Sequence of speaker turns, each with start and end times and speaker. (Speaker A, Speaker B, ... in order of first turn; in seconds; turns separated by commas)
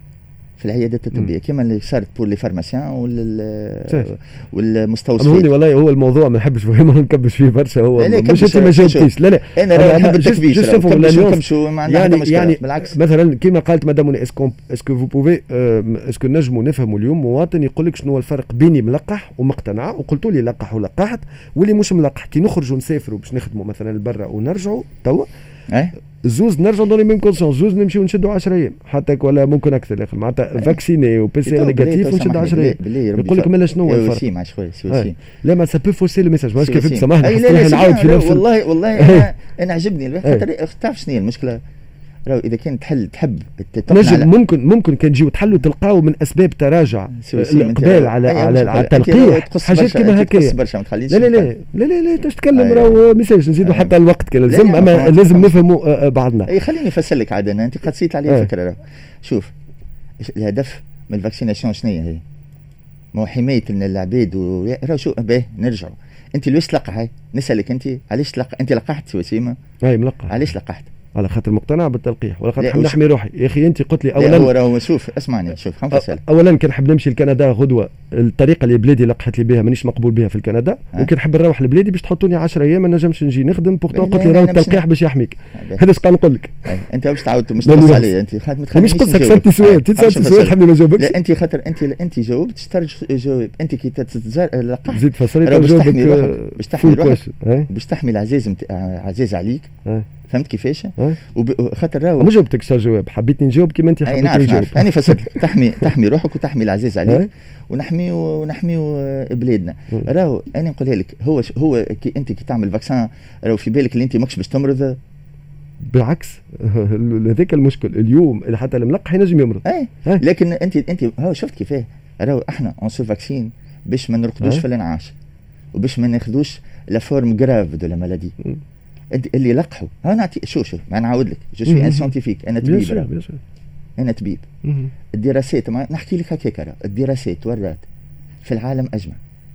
Speaker A: 0.6-5.5, Speaker B: 3.9-4.1, Speaker B: 5.2-25.3, Speaker A: 8.0-12.9, Speaker B: 26.2-34.2, Speaker A: 31.4-35.1, Speaker B: 34.9-38.4, Speaker A: 36.6-41.6, Speaker B: 39.0-39.3, Speaker A: 42.3-44.3, Speaker B: 43.9-50.5, Speaker A: 47.2-51.5, Speaker B: 51.1-56.5, Speaker A: 52.5-53.0, Speaker A: 53.6-54.0, Speaker A: 54.5-55.5, Speaker A: 56.5-59.5, Speaker A: 60.2-62.2, Speaker A: 63.1-69.5, Speaker B: 69.8-70.3, Speaker A: 70.3-70.9, Speaker B: 71.1-74.5, Speaker A: 72.6-73.0, Speaker A: 74.1-76.2, Speaker B: 75.9-86.6, Speaker A: 83.9-84.8, Speaker A: 85.5-85.8, Speaker A: 86.6-99.7, Speaker B: 87.6-88.1, Speaker B: 88.7-91.2, Speaker B: 94.9-97.7, Speaker A: 100.3-102.3, Speaker B: 102.2-105.3, Speaker A: 104.0-115.0, Speaker B: 115.8-120.2, Speaker A: 119.6-125.1, Speaker A: 125.7-128.3, Speaker A: 129.1-133.1, Speaker B: 131.7-132.1, Speaker B: 132.6-133.4, Speaker A: 134.0-134.4, Speaker B: 134.6-134.9, Speaker A: 135.1-137.8, Speaker A: 138.4-139.2